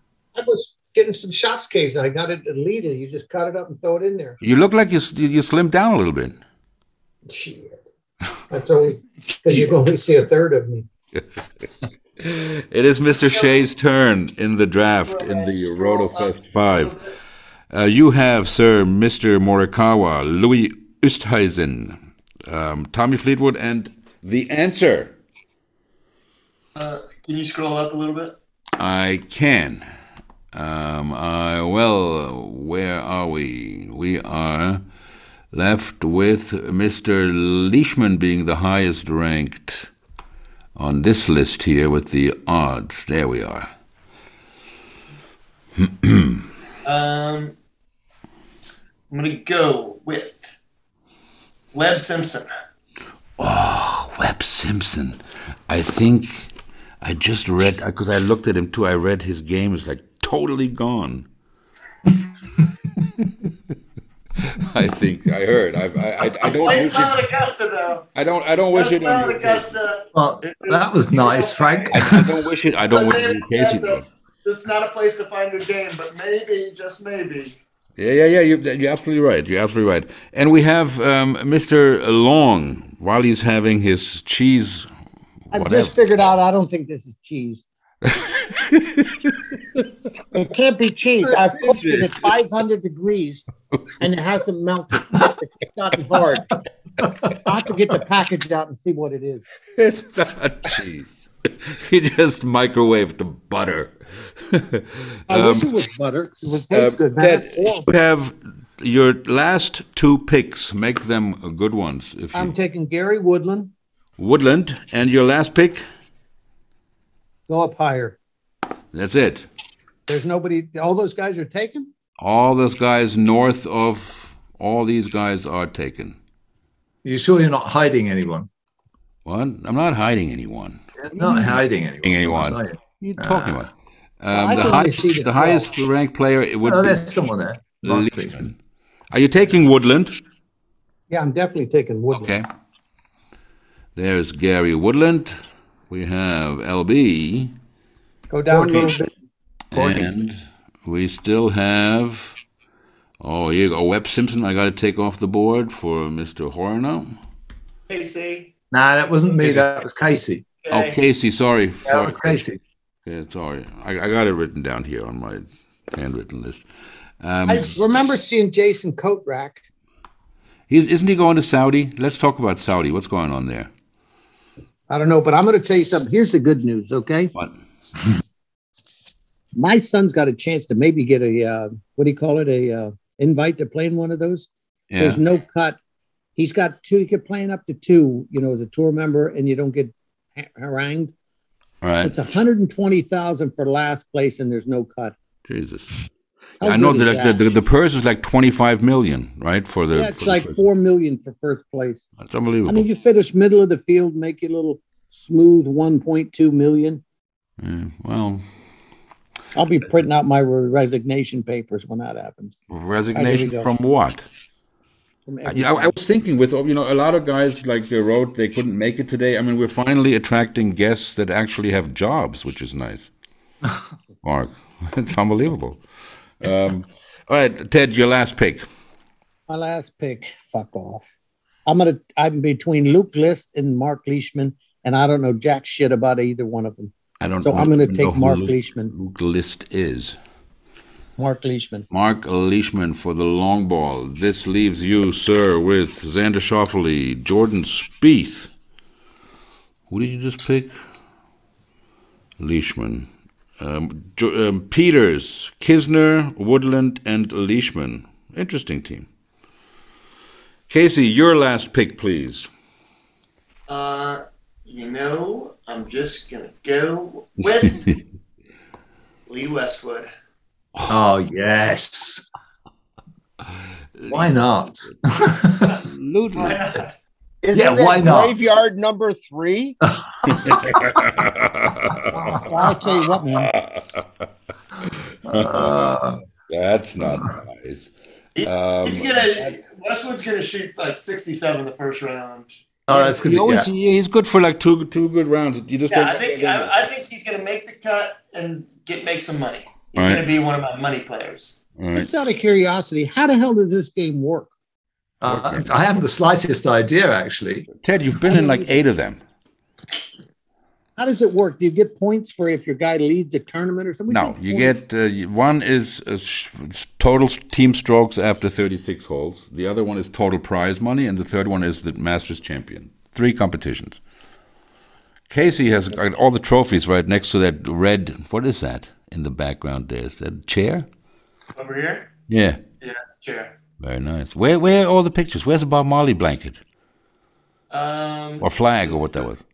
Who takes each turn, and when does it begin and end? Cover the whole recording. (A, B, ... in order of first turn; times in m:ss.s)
0:00.3-0:04.4 A
0:04.4-0:06.4 B
0:07.3-0:07.8 A
0:08.5-0:10.8 A
0:12.2-0:17.0 B
0:13.2-0:13.6 C
0:15.0-0:17.1 C
0:17.7-0:25.1 B
0:26.7-0:28.4 C
0:28.8-0:29.8 B
0:30.5-0:34.8 B
0:35.5-0:39.9 B
0:40.8-0:43.7 B
0:45.8-0:46.5 B
0:46.8-0:47.6 C
0:49.1-0:50.4 C
0:51.7-0:52.5 C
0:53.4-0:56.5 B
0:57.0-1:01.3 B
1:04.5-1:07.2 B
1:06.4-1:08.0 C
1:08.1-1:09.7 B
1:08.7-1:12.3 C
1:10.1-1:12.2 D
1:11.9-1:14.0 B
1:12.9-1:17.6 C
1:18.0-1:24.9 B
1:25.5-1:25.9 B
1:25.5-1:27.6 A
1:28.0-1:29.6 B
1:30.3-1:33.4 A
1:31.2-1:32.3 B
1:34.0-1:36.4 A
1:37.4-1:39.4 A
1:39.8-1:45.7 B
1:45.3-1:47.9 A
1:46.7-1:52.5 B
1:52.3-1:53.7 A
1:54.2-1:55.8 B
1:57.5-1:58.2 A
1:58.9-1:59.5 B
2:00.1-2:01.9 A
2:02.2-2:06.2 B
2:07.0-2:08.5 D
2:09.2-2:10.8 B
2:11.1-2:13.6 D
2:12.0-2:17.1 B
2:14.3-2:15.7 A
2:16.6-2:18.4 D
2:17.8-2:18.6 B
2:19.1-2:20.1 B
2:21.1-2:22.3 A
2:22.1-2:22.4 B
2:24.0-2:25.4 B
2:25.9-2:27.5 B
2:28.3-2:29.1 A
2:29.7-2:32.4 B
2:33.2-2:37.1 B
2:37.9-2:38.5 C
2:38.7-2:40.4 D
2:40.6-2:41.0 C
2:40.7-2:42.4 B
2:41.9-2:42.6 D
2:43.0-2:46.6 B
2:47.2-2:47.8 B
2:47.4-2:49.6 A
2:50.7-2:53.7 B
2:54.9-2:57.3 A
2:59.5-3:05.8 A
3:04.9-3:05.2 B
3:06.4-3:11.1 A
3:11.8-3:12.2 B
3:12.0-3:15.1 A
3:15.5-3:16.0 B
3:16.6-3:17.4 A
3:16.6-3:20.6 B
3:19.9-3:22.0 A
3:22.2-3:22.9 B
3:22.7-3:27.0 A
3:27.6-3:28.4 B
3:29.5-3:32.6 A
3:32.7-3:34.3 B
3:33.1-3:33.7 A
3:35.2-3:35.9 A
3:35.4-3:43.1 B
3:44.2-3:45.8 B
3:46.4-3:48.6 B
3:49.5-3:51.1 A
3:51.6-3:58.9 A
3:57.2-4:00.2 B
4:01.2-4:01.8 A
4:01.9-4:08.5 B
4:09.9-4:10.7 B
4:12.4-4:13.1 B
4:13.6-4:19.1 B
4:20.7-4:22.5 B
4:23.7-4:27.8 C
4:29.3-4:30.1 C
4:30.9-4:32.2 D
4:34.1-4:35.8 D
4:35.8-4:36.6 B
4:36.3-4:36.9 C
4:37.4-4:39.8 E
4:37.5-4:38.5 D
4:40.3-4:40.8 D
4:40.3-4:42.4 B
4:42.1-4:42.4 D
4:42.3-4:43.5 A
4:43.4-4:44.0 B
4:45.2-4:46.2 D
4:45.3-4:46.0 B
4:46.5-4:47.9 B
4:47.0-4:47.3 D
4:48.3-4:52.6 C
4:48.4-4:49.5 B
4:52.9-4:53.7 D
4:52.9-4:56.8 B
4:55.9-5:01.6 C
4:59.9-5:00.3 B
5:01.8-5:02.1 B
5:01.9-5:04.5 A
5:05.2-5:07.7 D
5:05.2-5:05.7 B
5:07.8-5:09.2 B
5:08.3-5:08.7 A
5:11.0-5:14.8 A
5:14.1-5:24.0 B
5:25.3-5:30.9 B
5:31.6-5:32.1 C
5:32.3-5:32.6 B
5:32.8-5:33.6 C
5:33.8-5:36.6 B
5:37.7-5:39.2 C
5:38.4-5:39.4 B